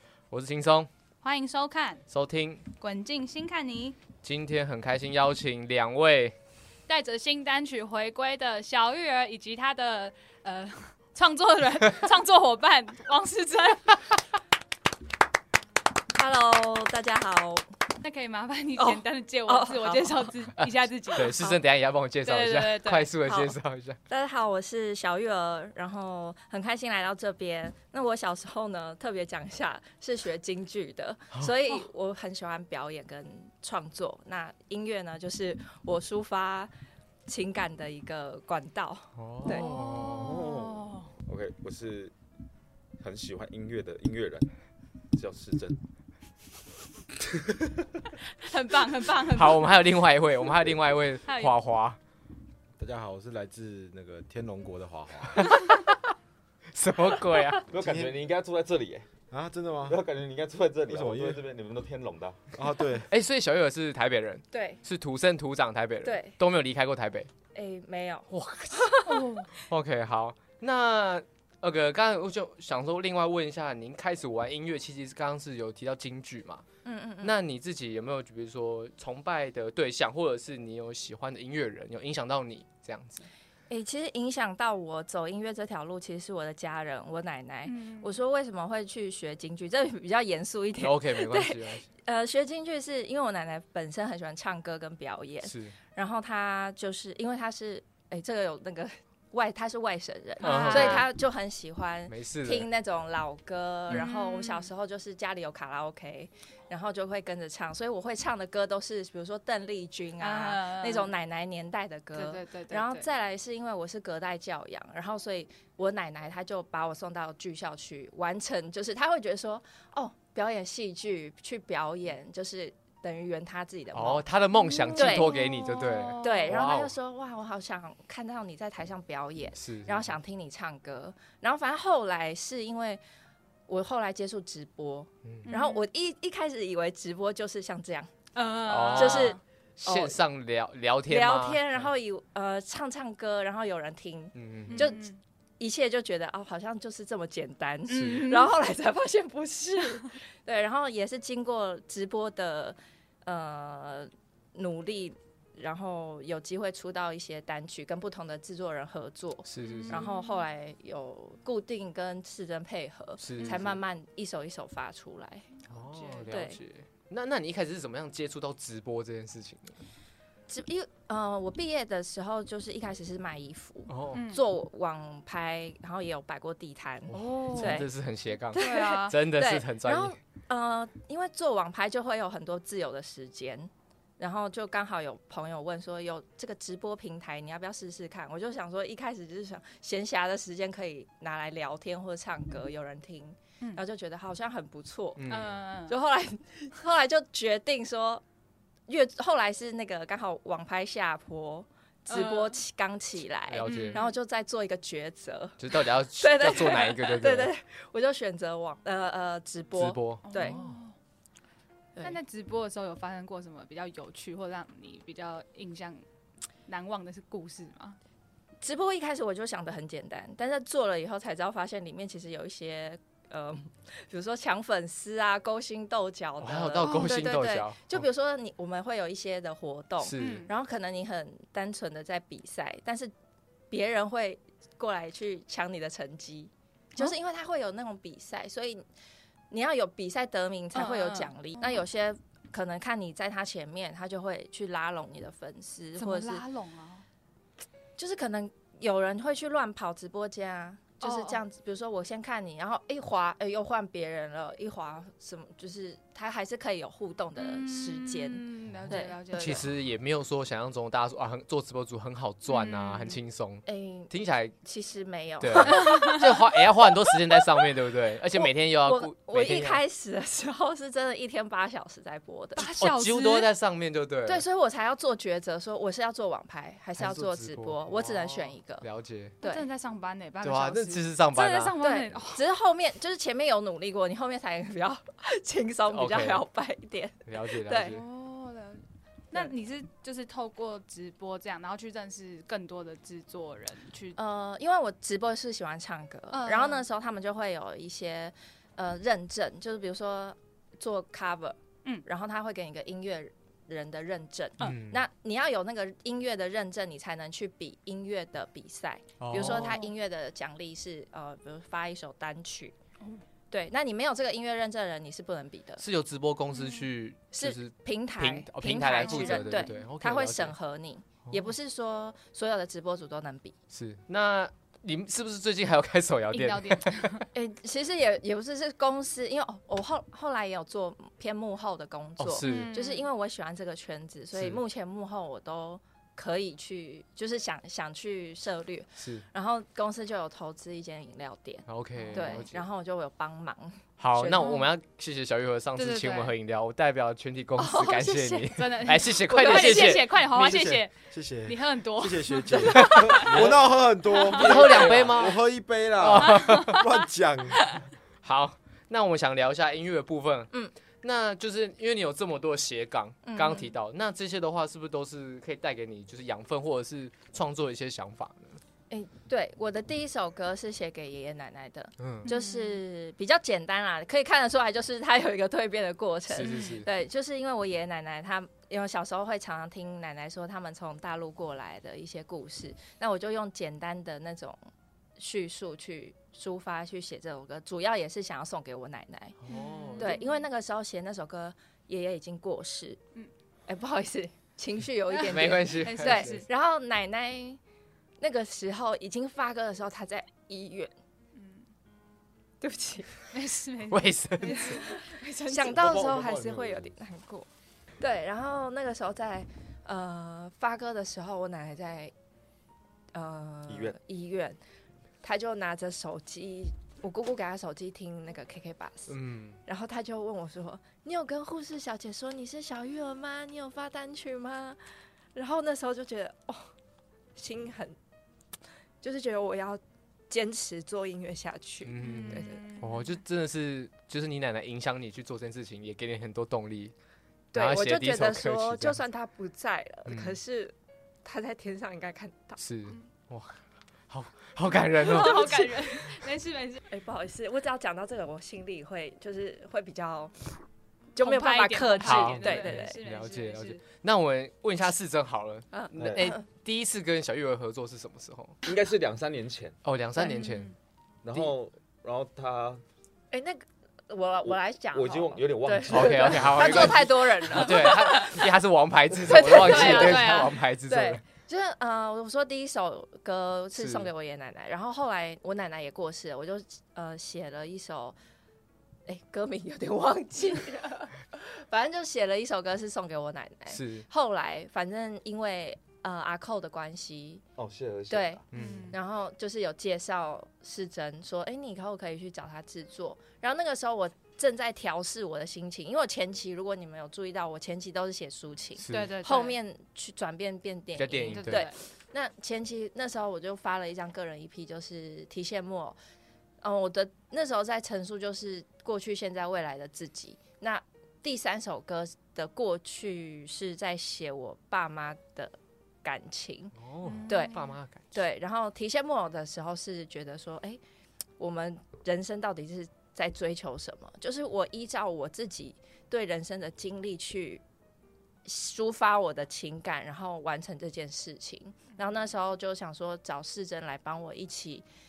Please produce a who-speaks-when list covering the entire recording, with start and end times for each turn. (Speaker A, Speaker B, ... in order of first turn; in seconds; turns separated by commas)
Speaker A: 0.3-0.9, Speaker B: 1.2-2.0, Speaker A: 2.1-2.6, Speaker B: 2.8-4.0, Speaker A: 4.2-6.3, Speaker B: 6.9-14.2, Speaker C: 16.1-17.6, Speaker B: 18.0-21.4, Speaker C: 18.8-20.3, Speaker A: 20.6-24.0, Speaker B: 22.2-23.1, Speaker C: 23.2-23.6, Speaker C: 24.1-36.7, Speaker C: 37.2-39.7, Speaker A: 39.1-40.5, Speaker B: 39.5-41.1, Speaker D: 40.1-42.1, Speaker D: 43.0-44.5, Speaker D: 45.1-45.8, Speaker B: 48.4-49.8, Speaker A: 49.3-52.0, Speaker B: 51.2-51.5, Speaker E: 52.8-55.5, Speaker A: 55.4-55.8, Speaker A: 56.7-57.7, Speaker D: 57.7-59.1, Speaker E: 57.7-58.2, Speaker E: 59.3-60.0, Speaker D: 59.9-62.5, Speaker E: 60.9-61.4, Speaker E: 62.5-63.1, Speaker A: 63.1-67.3, Speaker C: 64.5-64.8, Speaker C: 66.0-66.3, Speaker C: 67.5-69.4, Speaker A: 68.3-76.6, Speaker B: 69.1-69.4, Speaker C: 76.8-77.3, Speaker A: 77.2-83.2, Speaker C: 83.7-124.2, Speaker B: 87.7-88.1, Speaker A: 90.8-91.8, Speaker A: 95.4-95.8, Speaker B: 100.4-101.1, Speaker A: 100.4-101.1, Speaker A: 102.1-102.7, Speaker B: 103.9-104.7, Speaker B: 110.2-111.1, Speaker B: 112.1-113.0, Speaker A: 123.9-127.0, Speaker B: 124.6-126.6, Speaker C: 124.9-125.3, Speaker C: 126.2-133.0, Speaker A: 129.6-130.1, Speaker C: 133.7-138.1, Speaker A: 135.2-135.5, Speaker B: 135.4-135.8, Speaker B: 138.3-139.4, Speaker A: 138.7-141.8, Speaker C: 138.9-140.2, Speaker C: 141.1-145.0, Speaker A: 144.3-145.0, Speaker B: 144.7-145.2, Speaker C: 145.6-165.5, Speaker B: 147.9-148.5, Speaker A: 147.9-148.3, Speaker A: 159.4-160.1, Speaker B: 159.6-160.4, Speaker A: 163.2-163.8, Speaker B: 163.3-163.6, Speaker A: 165.7-169.8, Speaker B: 165.8-166.3, Speaker C: 166.3-166.6, Speaker C: 170.5-177.9, Speaker A: 173.9-174.2, Speaker B: 174.1-174.4, Speaker A: 177.1-180.2, Speaker B: 178.5-179.2, Speaker C: 178.5-195.2, Speaker A: 195.2-195.6, Speaker B: 195.3-195.9, Speaker C: 195.9-198.2, Speaker C: 198.9-210.6, Speaker B: 202.1-202.6, Speaker A: 203.5-204.0, Speaker B: 203.6-204.1, Speaker A: 205.6-207.5, Speaker A: 209.8-210.8, Speaker B: 210.3-210.9, Speaker B: 212.0-216.0, Speaker B: 216.7-218.0, Speaker C: 218.6-233.1, Speaker A: 226.4-228.0, Speaker A: 230.0-230.5, Speaker B: 230.2-230.5, Speaker C: 233.7-238.8, Speaker C: 239.5-246.4, Speaker B: 240.7-241.8, Speaker B: 246.0-247.0, Speaker C: 248.0-259.6, Speaker B: 251.0-251.4, Speaker B: 257.4-259.6, Speaker A: 258.7-264.5, Speaker B: 262.5-263.2, Speaker C: 263.6-266.3, Speaker A: 265.4-269.8, Speaker B: 265.7-266.2, Speaker C: 268.3-272.7, Speaker B: 272.6-273.5, Speaker A: 272.6-274.4, Speaker C: 274.2-278.8, Speaker A: 277.0-279.4, Speaker B: 279.4-282.4, Speaker A: 280.4-281.8, Speaker C: 281.8-288.0, Speaker A: 285.9-286.4, Speaker A: 287.3-288.0, Speaker B: 287.9-294.2, Speaker C: 294.2-312.7, Speaker B: 296.3-296.9, Speaker A: 304.6-305.0, Speaker A: 309.2-309.9, Speaker C: 313.5-315.8, Speaker A: 315.8-320.6, Speaker B: 316.5-316.9, Speaker C: 317.3-323.6, Speaker B: 319.0-319.9, Speaker A: 323.7-327.2, Speaker B: 326.3-327.2, Speaker C: 327.3-344.6, Speaker A: 332.2-332.8, Speaker B: 332.4-333.1, Speaker A: 334.3-334.6, Speaker A: 339.0-339.2, Speaker A: 341.7-342.6, Speaker B: 341.9-342.4, Speaker A: 344.0-350.1, Speaker B: 344.4-344.6, Speaker B: 345.8-346.3, Speaker C: 347.6-348.6, Speaker B: 348.6-353.3, Speaker C: 349.2-350.0, Speaker E: 350.2-357.7, Speaker D: 352.9-353.7, Speaker B: 354.1-354.4, Speaker A: 354.3-355.4, Speaker D: 354.3-355.3, Speaker A: 355.9-356.8, Speaker B: 356.2-356.9, Speaker A: 358.2-368.6, Speaker C: 363.2-363.7, Speaker C: 368.9-384.6, Speaker A: 372.0-372.3, Speaker B: 372.2-372.8, Speaker A: 376.3-376.9, Speaker B: 376.4-376.8, Speaker C: 385.2-389.4, Speaker A: 389.4-390.2, Speaker B: 389.5-390.4, Speaker C: 390.0-393.0, Speaker C: 393.7-397.6, Speaker B: 395.1-396.4, Speaker A: 395.2-396.4, Speaker C: 398.2-400.9, Speaker B: 401.4-401.6, Speaker C: 402.6-403.1, Speaker B: 403.3-405.8, Speaker A: 403.9-404.8, Speaker C: 404.4-407.5, Speaker E: 405.7-406.9, Speaker D: 405.8-406.1, Speaker C: 408.0-412.1, Speaker C: 413.1-414.6, Speaker D: 413.7-414.0, Speaker C: 415.2-424.8, Speaker A: 419.1-419.6, Speaker C: 425.3-426.7, Speaker C: 427.4-428.0, Speaker C: 429.0-432.6, Speaker A: 431.8-436.9, Speaker B: 432.0-433.2, Speaker C: 437.5-442.6, Speaker A: 437.5-439.0, Speaker A: 440.1-440.4, Speaker A: 442.6-445.7, Speaker B: 445.0-446.8, Speaker C: 445.2-445.7, Speaker C: 446.9-450.5, Speaker C: 451.1-453.0, Speaker B: 451.2-453.8, Speaker A: 452.0-458.6, Speaker C: 455.7-456.4, Speaker D: 456.0-456.3, Speaker D: 458.6-459.8, Speaker A: 459.8-460.7, Speaker B: 460.2-460.7, Speaker D: 461.2-462.8, Speaker C: 463.3-468.5, Speaker D: 464.4-466.9, Speaker A: 465.9-471.2, Speaker C: 469.2-478.2, Speaker B: 469.5-470.6, Speaker A: 473.8-474.1, Speaker C: 479.1-487.4, Speaker A: 483.7-484.1, Speaker D: 487.6-488.4, Speaker C: 488.1-506.0, Speaker A: 488.5-488.9, Speaker B: 488.5-489.0, Speaker A: 498.8-499.2, Speaker B: 498.9-499.6, Speaker A: 501.0-501.7, Speaker B: 501.3-501.7, Speaker C: 506.6-516.7, Speaker A: 516.8-518.2, Speaker B: 517.0-517.8, Speaker C: 517.3-520.8, Speaker C: 521.4-527.6, Speaker C: 528.4-534.8